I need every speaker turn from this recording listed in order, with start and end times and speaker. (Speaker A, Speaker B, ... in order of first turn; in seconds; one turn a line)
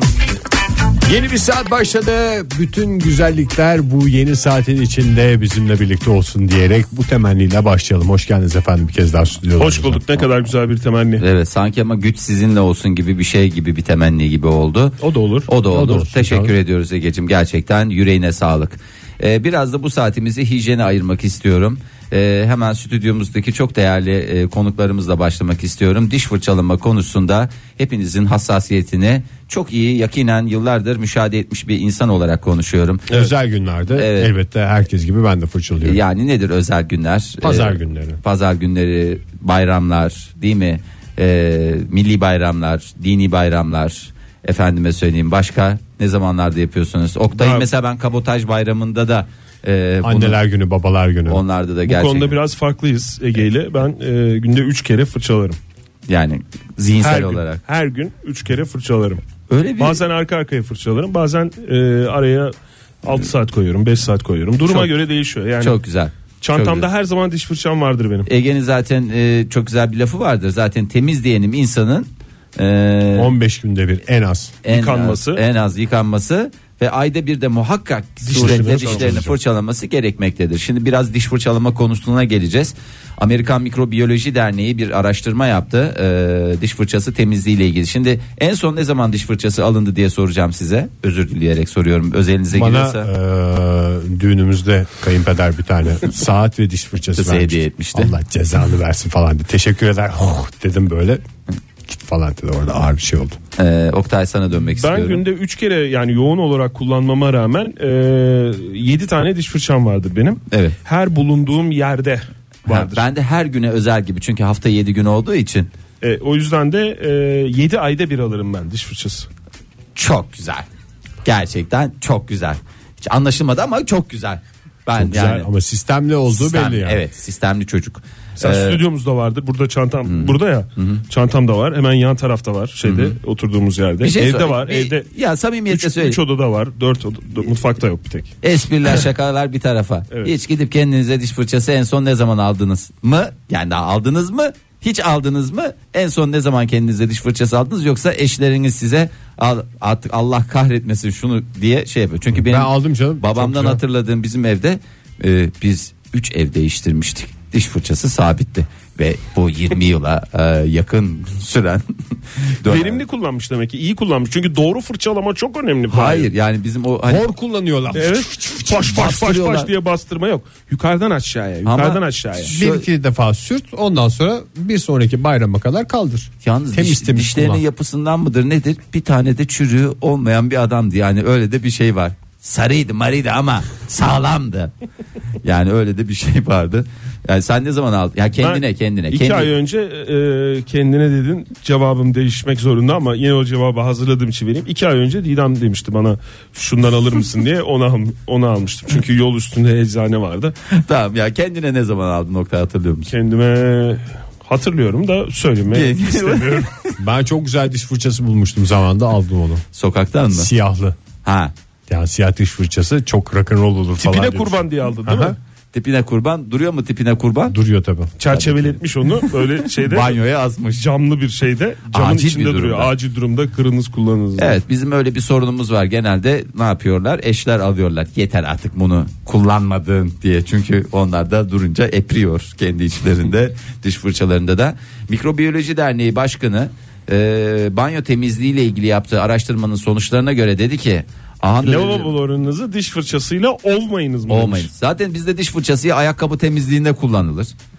Speaker A: 1.0-10.2
Speaker B: 9.6-11.2
Speaker C: 11.2-15.0
Speaker B: 15.0-15.5
Speaker C: 15.5-33.1
Speaker A: 15.7-16.5
Speaker A: 33.1-36.0
Speaker C: 33.9-34.3
Speaker C: 35.8-50.4
Speaker A: 37.4-38.2
Speaker B: 47.4-47.7
Speaker A: 50.0-51.4
Speaker C: 51.3-52.4
Speaker B: 51.9-55.6
Speaker C: 56.1-57.6
Speaker B: 57.0-59.2
Speaker C: 59.5-60.0
Speaker B: 59.8-65.8
Speaker C: 65.6-66.9
Speaker B: 66.4-68.3
Speaker C: 68.3-73.3
Speaker A: 73.2-74.6
Speaker C: 74.6-93.1
Speaker B: 74.7-75.4
Speaker B: 78.3-79.2
Speaker A: 78.3-79.3
Speaker A: 92.5-101.2
Speaker C: 97.1-98.1
Speaker A: 101.9-103.4
Speaker C: 103.6-105.2
Speaker B: 104.6-113.0
Speaker C: 110.5-110.8
Speaker C: 112.7-115.7
Speaker B: 116.0-119.3
Speaker C: 120.0-120.7
Speaker C: 121.2-125.5
Speaker A: 125.0-127.0
Speaker C: 126.3-128.8
Speaker B: 128.4-135.1
Speaker C: 130.1-131.0
Speaker C: 132.8-133.2
Speaker C: 134.0-136.2
Speaker B: 135.7-138.4
Speaker C: 138.4-163.0
Speaker A: 152.3-153.8
Speaker B: 162.6-166.3
Speaker C: 165.9-167.2
Speaker A: 167.1-168.9
Speaker B: 167.9-172.6
Speaker C: 168.9-169.7
Speaker C: 171.7-172.9
Speaker A: 172.4-177.6
Speaker C: 176.4-184.7
Speaker C: 185.4-189.5
Speaker B: 188.4-200.6
Speaker C: 200.7-203.1
Speaker B: 203.1-206.7
Speaker C: 205.7-207.0
Speaker A: 207.0-209.6
Speaker C: 209.7-210.5
Speaker A: 210.3-211.0
Speaker C: 211.2-211.5
Speaker A: 211.9-215.4
Speaker B: 214.0-215.4
Speaker C: 215.7-217.6
Speaker A: 217.5-218.2
Speaker B: 218.2-220.2
Speaker C: 218.3-220.8
Speaker B: 220.8-224.6
Speaker C: 221.9-222.9
Speaker C: 224.4-242.1
Speaker B: 241.6-244.7
Speaker C: 244.3-247.5